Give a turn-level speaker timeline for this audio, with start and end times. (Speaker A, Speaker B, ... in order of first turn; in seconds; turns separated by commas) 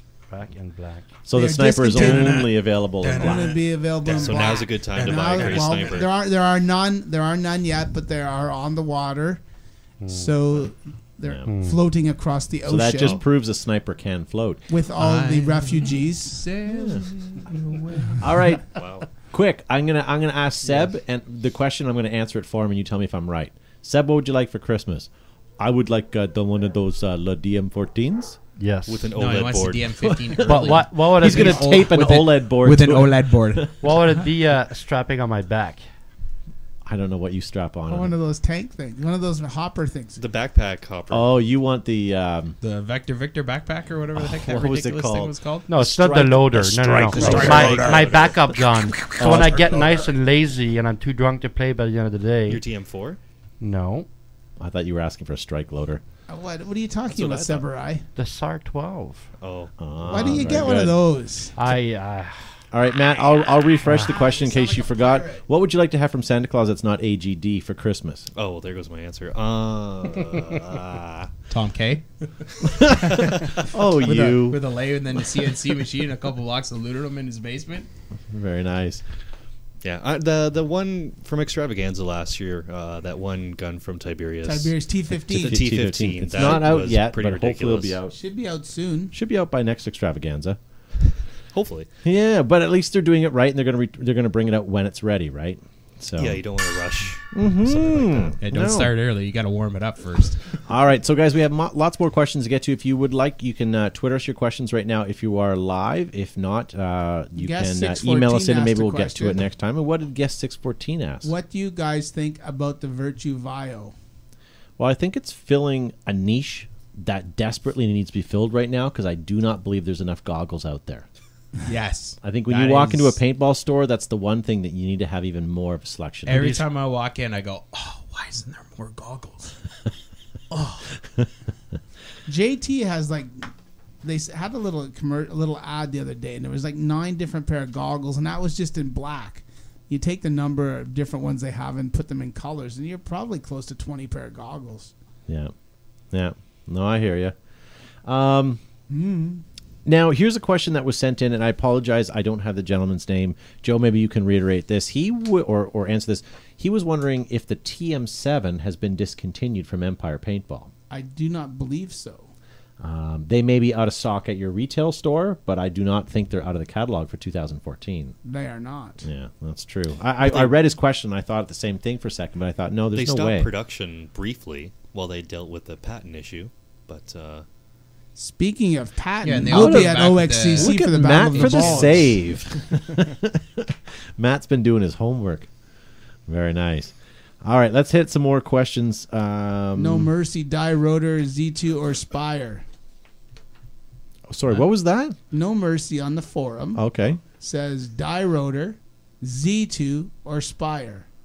Speaker A: 0.3-1.1, Speaker B: 1.2-3.5, Speaker C: 1.3-2.5, Speaker D: 1.9-6.0, Speaker C: 3.1-9.4, Speaker E: 4.0-6.1, Speaker A: 10.0-10.3, Speaker C: 10.1-13.2, Speaker A: 11.4-11.8, Speaker B: 12.7-14.7, Speaker C: 14.7-16.5, Speaker D: 14.9-18.4, Speaker B: 16.6-17.0, Speaker B: 18.2-18.6, Speaker E: 18.7-19.1, Speaker B: 19.2-28.4, Speaker A: 28.6-29.1, Speaker E: 28.9-29.9, Speaker D: 29.1-34.3, Speaker B: 30.0-33.7, Speaker A: 30.4-32.0, Speaker A: 33.8-35.8, Speaker B: 36.9-38.2, Speaker C: 37.9-40.2, Speaker E: 40.2-41.3, Speaker B: 41.1-42.6, Speaker D: 42.6-45.7, Speaker B: 44.1-47.9, Speaker A: 45.7-52.6, Speaker D: 47.0-48.1, Speaker E: 47.3-48.4, Speaker B: 49.1-50.0, Speaker E: 52.5-53.2, Speaker A: 53.6-54.1, Speaker B: 54.6-56.0, Speaker C: 56.3-58.0, Speaker E: 57.1-57.6, Speaker A: 58.1-59.3, Speaker E: 59.4-59.7, Speaker B: 59.8-61.0, Speaker C: 60.0-61.5, Speaker A: 61.5-62.5, Speaker B: 62.7-68.3, Speaker A: 63.8-64.1, Speaker C: 63.9-65.4, Speaker E: 68.3-71.3, Speaker D: 71.5-72.0, Speaker B: 72.8-73.2, Speaker B: 73.7-74.6, Speaker D: 74.0-77.9, Speaker B: 78.3-79.0, Speaker E: 79.8-88.0, Speaker C: 84.4-85.6, Speaker B: 85.4-88.2, Speaker C: 86.4-86.7, Speaker C: 88.1-89.1, Speaker B: 89.1-90.6, Speaker E: 91.5-91.9, Speaker B: 92.0-96.4, Speaker E: 96.2-98.3, Speaker B: 97.3-98.9, Speaker D: 98.4-100.4, Speaker B: 100.7-111.3, Speaker C: 107.3-109.4, Speaker C: 111.2-113.9, Speaker B: 114.8-121.0, Speaker D: 121.7-123.1, Speaker B: 122.2-126.5, Speaker D: 126.2-129.5, Speaker A: 126.3-126.7, Speaker D: 130.5-130.9, Speaker C: 132.2-133.3, Speaker C: 134.0-144.9, Speaker B: 145.3-145.5, Speaker B: 146.1-147.3, Speaker B: 148.0-148.6, Speaker C: 148.9-149.4, Speaker B: 149.8-160.7, Speaker C: 160.9-162.3, Speaker B: 162.8-168.2, Speaker C: 168.2-169.0, Speaker B: 169.0-173.5, Speaker E: 172.9-177.4, Speaker C: 178.2-182.2, Speaker D: 179.2-182.0, Speaker B: 179.4-185.5, Speaker B: 186.3-190.1, Speaker C: 189.7-192.6, Speaker B: 194.3-195.2, Speaker C: 195.3-196.8, Speaker B: 196.7-197.2, Speaker C: 197.4-201.1